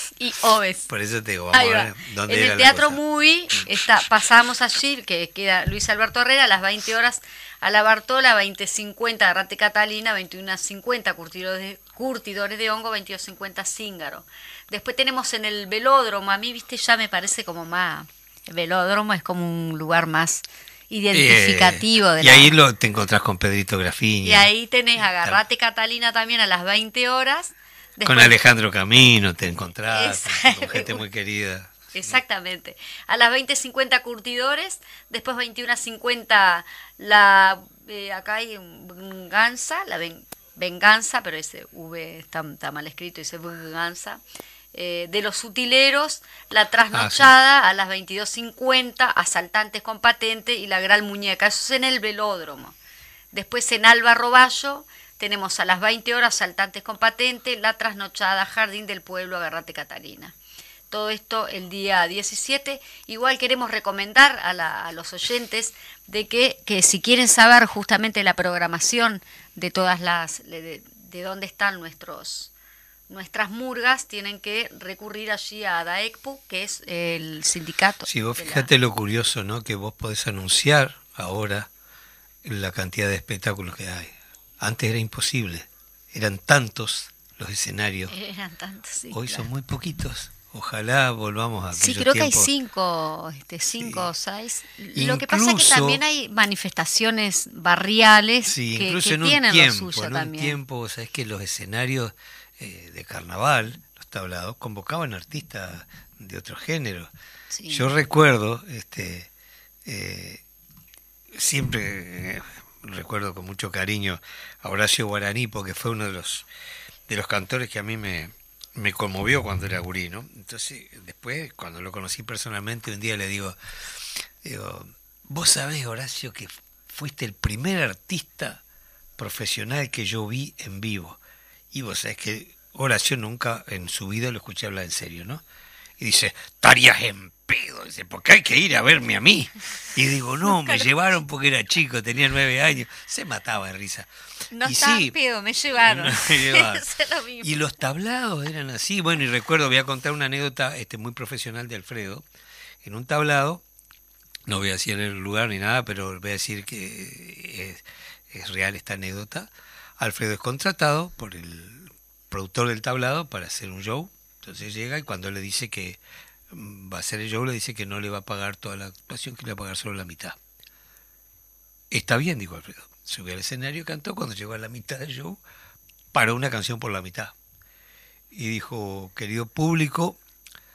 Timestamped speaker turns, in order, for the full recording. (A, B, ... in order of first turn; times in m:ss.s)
0:00.2-0:00.9 A
0:00.9-0:03.0 B
0:01.5-0:22.5 A
0:21.1-0:24.5 B
0:24.2-0:28.4 A
0:28.0-0:32.2 B
0:29.9-0:31.0 A
0:31.9-0:44.2 A
0:44.7-0:52.7 A
0:46.9-0:47.3 B
0:53.3-1:00.3 A
1:00.9-1:12.5 A
1:13.1-1:18.7 A
1:18.1-1:21.7 B
1:22.4-1:28.1 B
1:28.1-1:29.5 A
1:29.1-1:32.5 B
1:31.7-1:40.6 A
1:33.8-1:34.1 B
1:34.9-1:36.0 B
1:38.4-1:47.1 B
1:47.5-1:47.9 A
1:47.7-1:49.3 B
1:49.8-1:50.4 B
1:51.3-1:56.4 B
1:57.1-2:03.6 B
2:04.4-2:08.6 B
2:09.2-2:11.2 B
2:11.7-2:15.4 B
2:16.0-2:24.1 B
2:20.5-2:20.9 A
2:24.5-2:27.6 A
2:24.6-2:25.1 B
2:25.8-2:26.8 B
2:27.4-2:32.2 B
2:32.8-2:33.6 B
2:34.4-2:50.4 B
2:51.9-2:55.4 B
2:56.1-2:57.3 B
2:58.3-3:00.2 B